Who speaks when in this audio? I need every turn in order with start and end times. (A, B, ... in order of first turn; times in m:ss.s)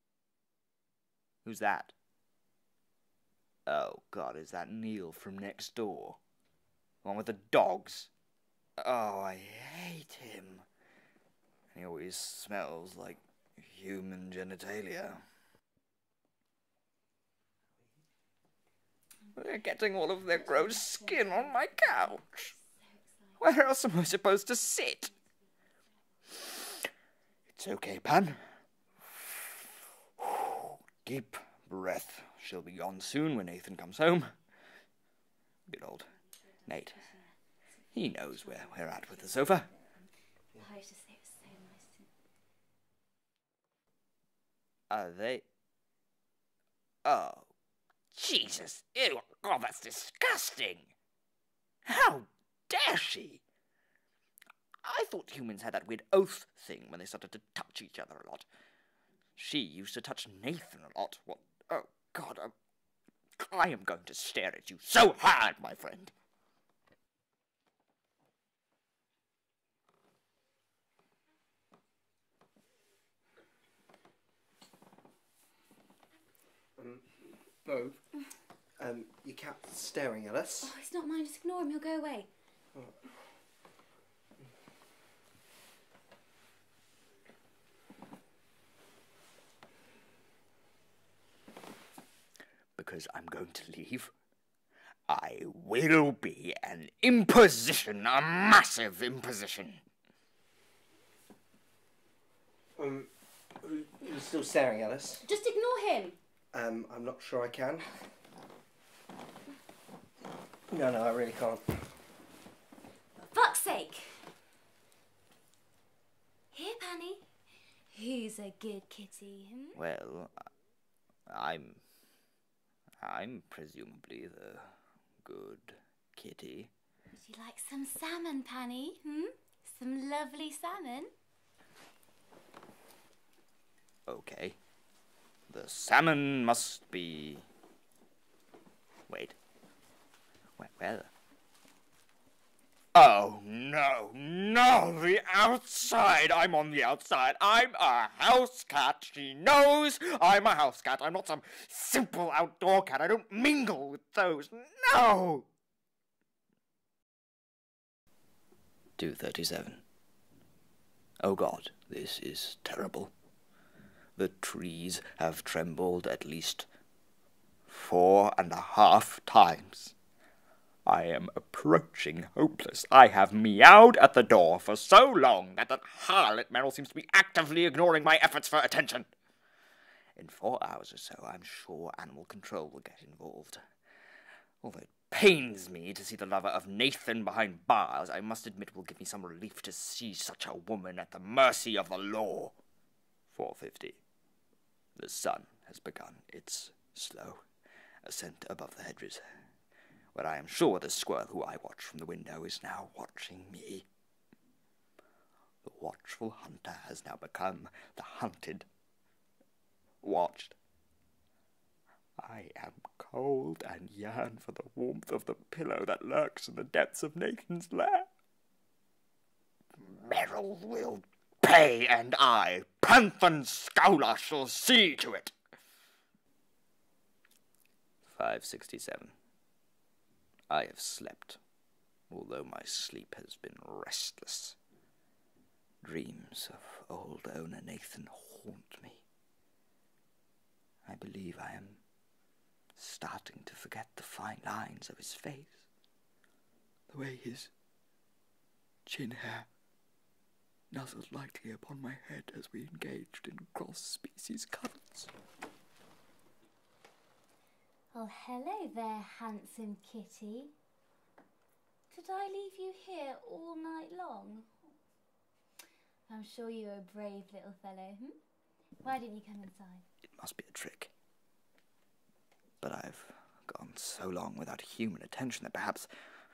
0:01.4-0:01.9 A
0:03.7-0:06.2 A
0:07.0-0:08.1 A
0:08.8-0:10.6 A
0:11.7-0:15.2 A
0:19.3-0:22.5 A
0:20.5-0:23.4 B
0:23.4-0:25.1 A
0:27.6-0:28.4 A
0:29.1-0:34.3 A
0:35.7-0:36.1 A
0:36.6-0:37.1 A
0:37.0-0:37.3 B
0:37.9-0:39.7 A
0:38.1-0:42.1 B
0:44.9-0:45.4 A
0:47.0-0:47.5 A
0:48.1-0:50.9 A
0:51.8-0:53.4 A
0:54.8-0:58.4 A
0:59.4-1:02.5 A
1:03.4-1:06.1 A
1:16.8-1:18.0 C
1:18.8-1:20.7 C
1:20.6-1:22.3 B
1:22.7-1:23.1 C
1:32.8-1:34.1 A
1:35.1-1:39.8 A
1:42.8-1:43.1 C
1:43.6-1:45.2 C
1:45.2-1:46.2 B
1:46.5-1:48.0 C
1:50.7-1:51.9 C
1:53.2-1:54.3 B
1:56.5-1:57.2 B
1:57.9-1:59.8 B
1:59.8-2:00.3 A
2:01.3-2:01.8 A
2:03.0-2:06.7 A
2:07.1-2:11.1 B
2:14.1-2:14.6 A
2:15.5-2:17.4 A
2:19.1-2:19.4 A
2:20.6-2:21.1 A
2:22.9-2:35.5 A
2:39.0-2:39.8 A
2:41.2-2:43.1 A
2:44.2-2:46.7 A
2:47.7-2:49.9 A
2:50.8-2:59.1 A
3:00.2-3:03.6 A
3:04.6-3:12.5 A
3:13.3-3:14.0 A
3:15.0-3:17.4 A
3:18.0-3:19.2 A
3:20.1-3:23.8 A
3:25.6-3:28.7 A
3:30.0-3:30.6 A
3:32.2-3:38.1 A
3:39.8-3:45.3 A
3:48.0-3:49.1 A
3:50.5-3:51.4 A
3:52.1-3:54.6 A
3:55.8-3:59.0 A
4:00.8-4:01.8 A
4:02.8-4:05.7 A
4:06.9-4:07.5 A
4:08.8-4:09.5 A
4:10.7-4:15.1 A
4:17.9-4:20.5 B
4:21.9-4:24.5 B
4:26.1-4:28.2 B
4:28.8-4:29.8 B
4:30.2-4:30.9 A
4:32.6-4:35.9 A